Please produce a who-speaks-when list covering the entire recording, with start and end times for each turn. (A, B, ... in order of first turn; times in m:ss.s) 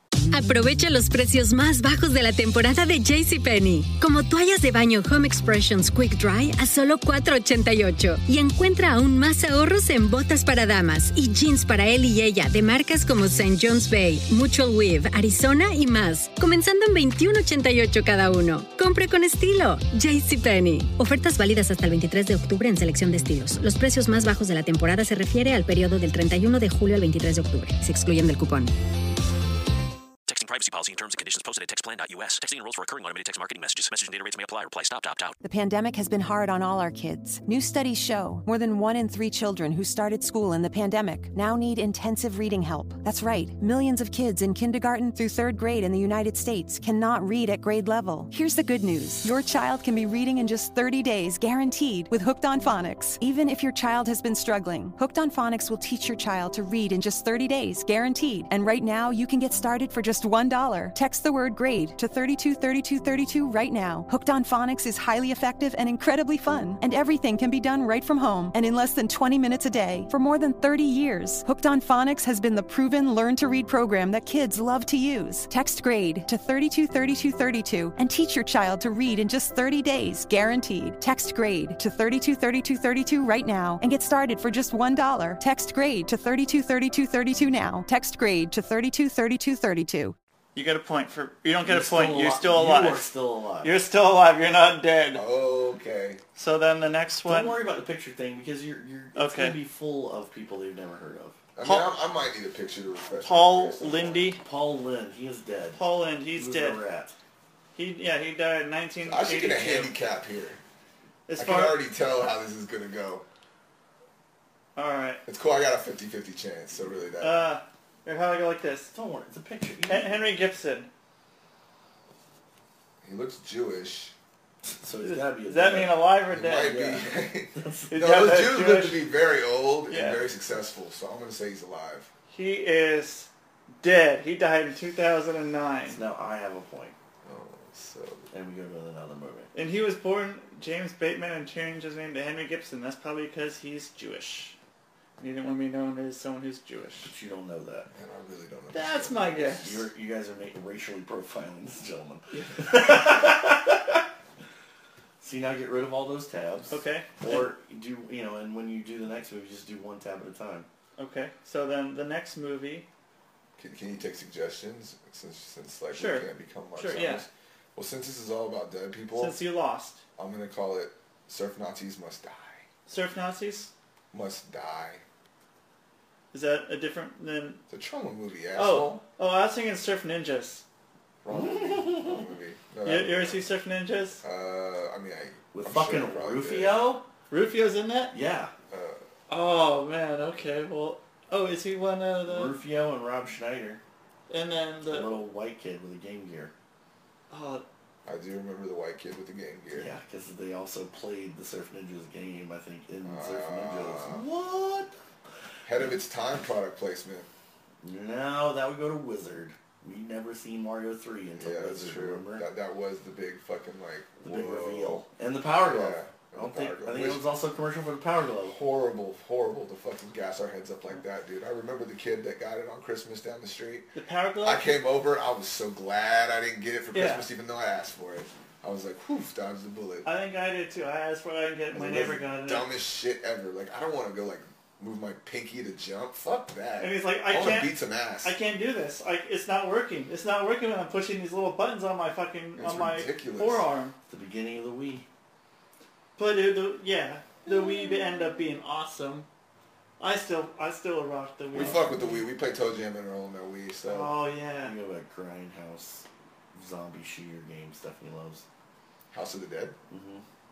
0:00.3-0:28.8 A
0:30.3-0:35.4 B
0:35.4-1:30.2 C
1:30.6-1:33.1 D
1:31.7-1:33.8 E
1:33.6-1:35.3 D
1:35.1-1:36.2 F
1:36.4-1:37.6 D
1:37.3-1:41.4 E
1:39.2-1:39.6 D
1:41.6-1:44.3 F
1:41.6-1:41.9 D
1:43.2-1:44.4 D
1:44.4-1:45.8 E
1:45.8-1:46.8 D
1:46.4-1:47.2 E
1:47.8-1:49.9 D
1:49.0-1:50.6 F
1:51.3-1:51.9 D
1:51.4-1:53.3 F
1:54.8-1:55.2 D
1:55.3-1:57.5 F
1:57.2-1:58.9 D
1:58.9-2:00.2 E
1:59.9-2:00.9 D
2:03.0-2:04.2 F
2:04.6-2:06.1 E
2:05.0-2:06.9 D
2:06.3-2:12.1 F
2:06.6-2:07.9 E
2:07.9-2:09.1 D
2:09.9-2:10.2 D
2:12.3-2:13.3 D
2:13.8-2:16.0 D
2:15.9-2:17.0 E
2:17.2-2:18.3 F
2:18.3-2:19.5 E
2:19.5-2:24.6 D
2:25.2-2:27.1 D
2:27.0-2:27.9 E
2:27.9-2:29.6 F
2:28.7-2:29.8 D
2:29.6-2:34.0 E
2:32.3-2:33.1 D
2:35.2-2:40.7 E
2:36.7-2:37.5 D
2:41.0-2:42.9 D
2:43.6-2:49.4 F
2:45.9-2:47.2 D
2:49.2-2:50.0 D
2:50.2-2:52.7 F
2:52.9-2:53.7 D
2:54.1-2:55.0 F
2:56.3-2:57.6 D
2:57.7-2:59.0 F
2:58.6-3:00.6 D
3:01.2-3:03.4 F
3:01.3-3:02.2 E
3:02.8-3:04.2 D
3:04.2-3:06.8 F
3:05.5-3:07.1 E
3:07.3-3:08.1 D
3:08.1-3:08.5 E
3:08.7-3:09.0 F
3:09.3-3:12.6 D
3:12.2-3:13.8 E
3:14.3-3:15.2 D
3:14.9-3:16.5 E
3:17.3-3:17.6 D
3:18.0-3:19.9 F
3:19.7-3:25.0 E
3:23.0-3:24.2 F
3:25.6-3:27.3 F
3:27.8-3:32.5 E
3:31.4-3:37.3 F
3:34.2-3:38.6 E
3:38.4-3:43.9 F
3:43.9-3:44.7 D
3:44.4-3:50.1 F
3:46.9-3:47.3 D
3:50.0-3:52.7 D
3:51.7-3:58.4 F
3:56.8-4:04.0 D
4:02.6-4:03.7 F
4:04.1-4:05.1 E
4:06.2-4:09.3 D
4:10.0-4:12.3 D
4:11.5-4:14.2 F
4:13.8-4:14.8 D
4:14.6-4:18.4 E
4:19.1-4:19.8 F
4:19.9-4:20.2 E